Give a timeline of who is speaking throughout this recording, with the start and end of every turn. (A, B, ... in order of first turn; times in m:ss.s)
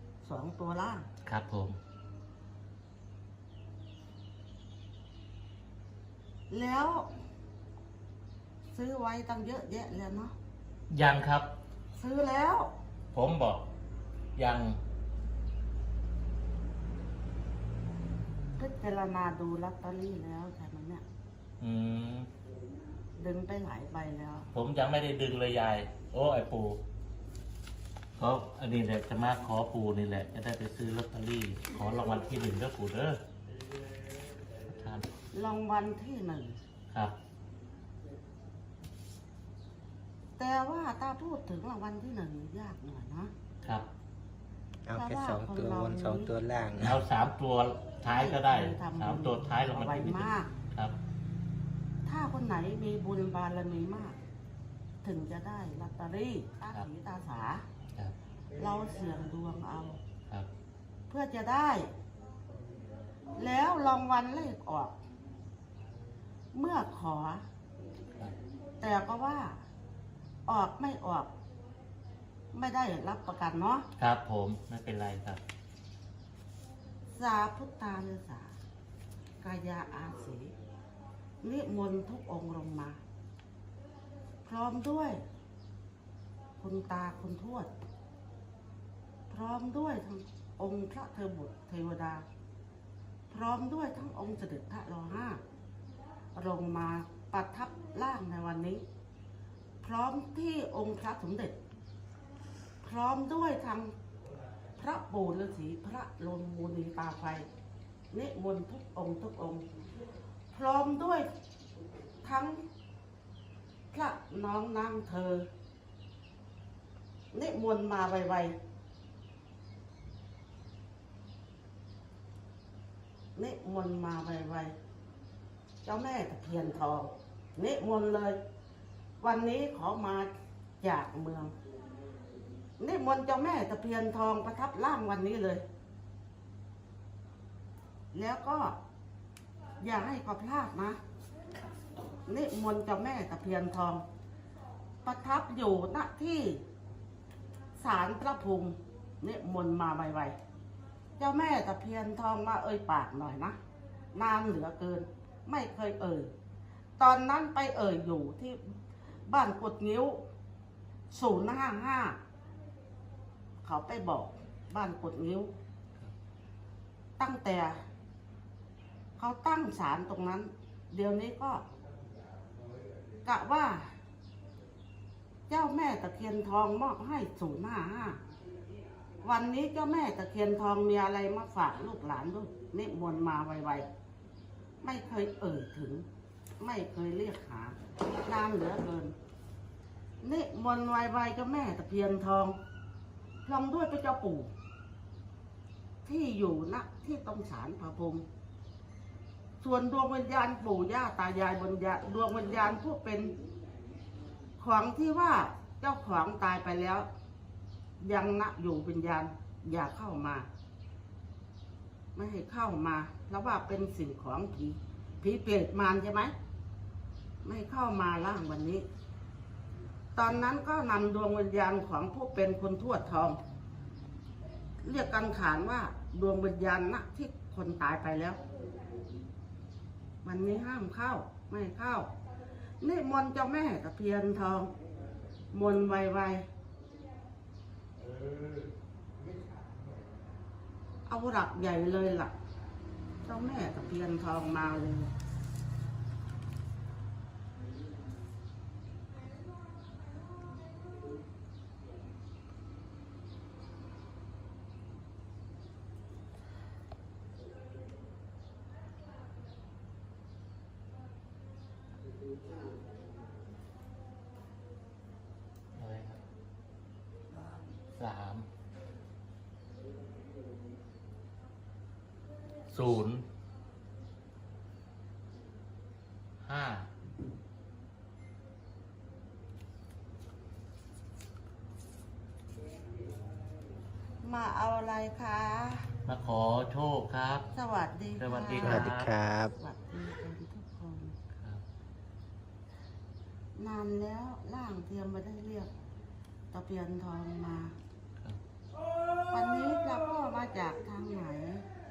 0:00.2-0:01.1 A
0:01.2-0:01.8 B
0:06.5-0:07.1 A
0:08.7-0:10.3 A
0:10.9-0:11.5 B
0:12.0-0:12.7 A
0:13.1-0:13.6 B
0:14.4-0:14.8 B
0:18.6-0:21.0 A
0:21.6-0:22.3 B
0:23.2-0:24.5 A
0:24.5-0:26.8 B
0:28.2-0:33.2 B
0:34.6-0:35.1 B
0:35.3-0:36.6 A
0:36.9-0:37.2 B
0:40.4-0:43.3 A
0:43.6-0:43.9 B
0:44.8-0:47.0 C
0:44.9-0:46.3 A
0:46.8-0:51.0 B
0:48.0-0:50.5 A
0:52.0-0:54.2 A
0:55.0-0:57.6 A
0:58.6-1:00.0 A
1:01.1-1:01.9 A
1:03.4-1:05.0 A
1:06.5-1:07.4 A
1:08.8-1:09.5 A
1:10.5-1:11.3 A
1:12.5-1:13.8 A
1:14.0-1:15.4 B
1:17.1-1:18.5 A
1:19.4-1:20.5 A
1:21.4-1:23.0 A
1:24.4-1:25.2 A
1:26.6-1:27.7 A
1:29.3-1:32.2 A
1:33.3-1:35.4 A
1:36.3-1:38.8 A
1:39.8-1:41.6 A
1:42.8-1:43.9 A
1:44.8-1:47.5 A
1:48.1-1:49.6 A
1:50.5-1:51.3 A
1:52.2-1:52.6 A
1:53.9-1:55.5 A
1:57.3-1:58.6 A
2:03.4-2:04.7 A
2:05.8-2:08.4 A
2:09.2-2:10.3 A
2:10.8-2:11.5 A
2:12.8-2:15.6 A
2:18.1-2:18.8 A
2:19.8-2:21.0 A
2:22.2-2:24.0 A
2:25.0-2:26.6 A
2:27.8-2:30.4 A
2:31.2-2:33.6 A
2:34.1-2:36.3 A
2:37.0-2:38.7 A
2:39.3-2:40.2 A
2:41.1-2:42.2 A
2:43.6-2:45.5 A
2:47.2-2:47.8 A
2:49.2-2:51.6 A
2:53.2-2:53.9 A
2:55.5-2:58.2 A
2:59.2-3:03.9 A
3:04.8-3:06.0 A
3:06.6-3:09.1 A
3:10.2-3:12.6 A
3:13.4-3:14.5 A
3:16.0-3:18.2 A
3:19.6-3:23.3 A
3:24.6-3:27.1 A
3:28.0-3:30.5 A
3:32.1-3:36.3 A
3:37.4-3:38.8 A
3:40.2-3:43.4 A
3:44.8-3:48.4 A
3:50.2-3:52.1 A
3:52.8-3:54.7 A
3:55.5-3:56.4 A
4:01.1-4:02.3 A
4:03.2-4:05.1 A
4:25.7-4:26.2 B
4:28.0-4:28.5 B
4:32.7-4:33.2 B
4:36.4-4:36.9 B
4:44.2-4:45.9 A
4:46.0-4:47.5 B
4:47.5-4:48.9 A
4:48.2-4:49.1 B
4:48.6-4:49.5 C
4:49.6-4:51.1 A
4:51.4-4:51.6 B
4:53.6-4:55.7 A
4:56.5-4:57.7 A
4:59.3-5:01.6 A